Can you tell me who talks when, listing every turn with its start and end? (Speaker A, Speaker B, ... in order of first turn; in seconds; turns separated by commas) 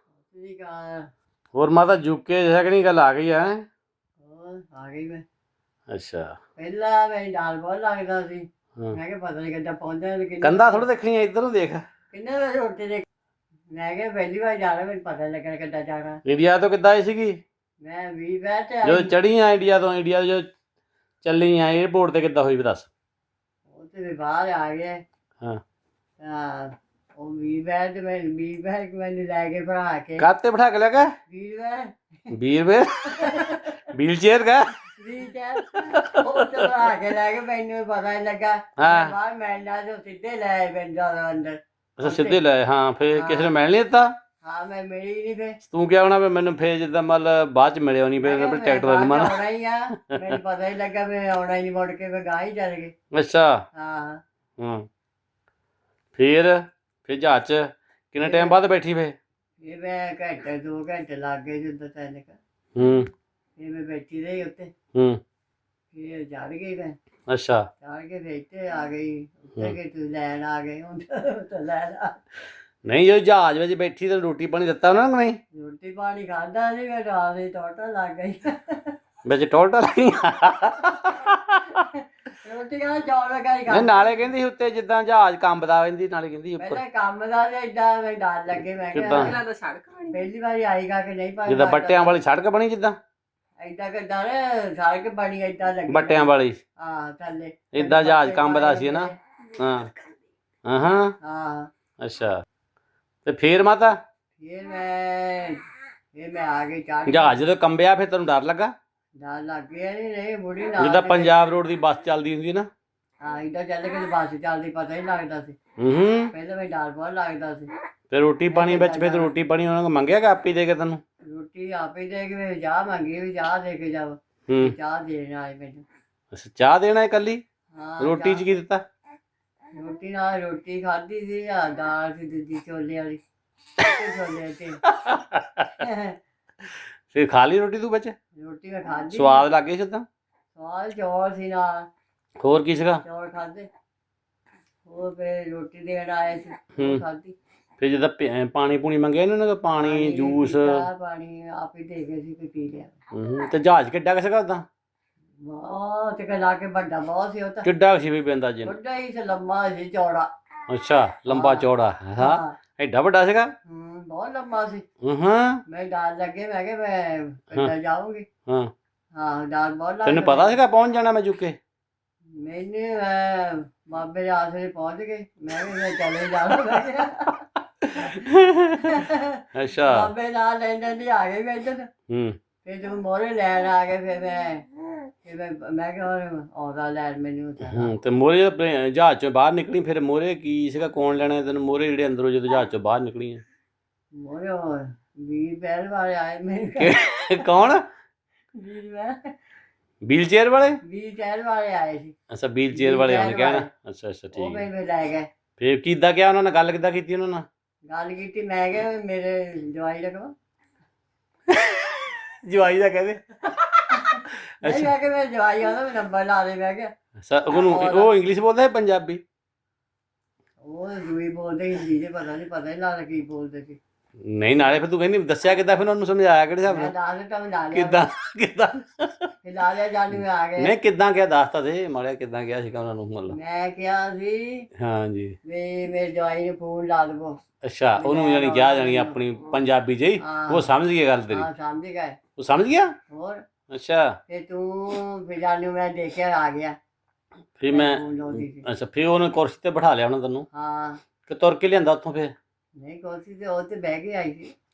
Speaker A: 0.3-1.1, Speaker B: 1.6-3.6, Speaker A: 4.2-5.2, Speaker B: 5.9-6.3, Speaker A: 6.6-10.9, Speaker B: 10.4-11.8, Speaker A: 12.1-13.1, Speaker A: 13.7-16.2, Speaker B: 16.2-17.4, Speaker A: 17.8-19.2, Speaker B: 18.8-20.5, Speaker B: 21.2-22.9, Speaker A: 23.7-25.0, Speaker A: 26.2-30.3, Speaker B: 30.2-31.1, Speaker A: 31.3-32.0, Speaker B: 32.3-34.9, Speaker A: 33.0-33.8, Speaker A: 34.9-42.4, Speaker B: 35.6-37.0, Speaker B: 38.8-39.1, Speaker B: 42.0-44.1, Speaker A: 43.1-43.6, Speaker A: 44.4-45.6, Speaker B: 45.6-49.4, Speaker A: 48.2-52.9, Speaker B: 50.0-50.4, Speaker B: 53.1-53.6, Speaker A: 53.7-54.2, Speaker B: 54.6-54.9, Speaker B: 56.1-59.1, Speaker A: 58.2-58.6, Speaker A: 59.6-62.4, Speaker B: 62.8-63.1, Speaker A: 63.6-64.7, Speaker B: 64.9-65.2, Speaker A: 65.9-67.0, Speaker B: 67.3-67.7, Speaker A: 67.8-72.2, Speaker B: 72.8-75.4, Speaker A: 75.5-79.0, Speaker B: 79.2-81.9, Speaker A: 82.0-84.3, Speaker B: 83.7-86.8, Speaker A: 86.6-89.4, Speaker B: 88.9-89.4, Speaker A: 90.1-92.2, Speaker B: 91.5-93.0, Speaker A: 93.6-99.1, Speaker B: 95.9-96.6, Speaker B: 97.7-99.9, Speaker B: 100.7-101.2, Speaker A: 101.2-101.7, Speaker B: 102.0-102.4, Speaker B: 103.2-104.0, Speaker A: 104.4-107.5, Speaker B: 107.1-108.7, Speaker A: 109.2-111.4, Speaker B: 110.8-112.7, Speaker A: 113.2-115.6, Speaker B: 115.8-116.3, Speaker A: 116.3-117.7, Speaker B: 118.1-121.0, Speaker A: 118.5-119.3, Speaker A: 121.2-125.8, Speaker B: 124.5-124.8, Speaker B: 126.3-127.4, Speaker A: 127.7-128.6, Speaker B: 128.0-128.8, Speaker A: 129.7-133.2, Speaker A: 133.9-134.8, Speaker B: 134.8-135.9, Speaker A: 135.8-136.2, Speaker B: 137.1-138.2, Speaker A: 138.3-139.5, Speaker B: 139.1-140.1, Speaker A: 140.6-141.9, Speaker B: 142.4-143.0, Speaker A: 143.0-143.7, Speaker A: 144.8-147.4, Speaker B: 146.7-147.0, Speaker B: 147.8-150.8, Speaker A: 149.8-152.9, Speaker B: 153.1-154.7, Speaker A: 155.4-157.7, Speaker B: 157.6-158.8, Speaker A: 158.7-160.3, Speaker B: 160.7-163.5, Speaker A: 161.3-162.6, Speaker A: 163.7-164.8, Speaker B: 165.0-165.6, Speaker A: 165.7-168.3, Speaker B: 168.5-168.7, Speaker A: 169.1-170.6, Speaker B: 170.0-171.6, Speaker A: 172.3-177.4, Speaker B: 177.8-180.1, Speaker A: 178.0-181.9, Speaker B: 182.0-182.4, Speaker A: 182.6-187.9, Speaker B: 187.6-193.4, Speaker A: 194.1-197.5, Speaker B: 196.8-197.9, Speaker A: 198.6-199.3, Speaker B: 200.0-200.8, Speaker A: 200.8-202.2, Speaker B: 202.3-204.7, Speaker A: 202.7-203.7, Speaker A: 204.3-205.3, Speaker B: 205.6-207.5, Speaker A: 207.9-210.3, Speaker B: 211.5-215.0, Speaker A: 213.9-216.9, Speaker B: 217.2-219.2, Speaker A: 217.5-218.1, Speaker A: 220.6-223.8, Speaker B: 224.2-226.9, Speaker A: 226.6-228.1, Speaker B: 227.7-229.3, Speaker A: 229.4-230.7, Speaker B: 230.1-233.4, Speaker A: 233.3-234.7, Speaker B: 234.8-235.4, Speaker A: 235.4-237.4, Speaker B: 237.6-241.5, Speaker A: 238.0-239.2, Speaker A: 240.2-240.8, Speaker A: 241.4-242.2, Speaker B: 242.3-243.0, Speaker A: 243.1-243.4, Speaker B: 243.7-244.2, Speaker A: 244.3-246.8, Speaker B: 247.6-250.5, Speaker A: 247.7-248.7, Speaker A: 250.5-251.0, Speaker B: 251.2-252.3, Speaker A: 252.8-254.5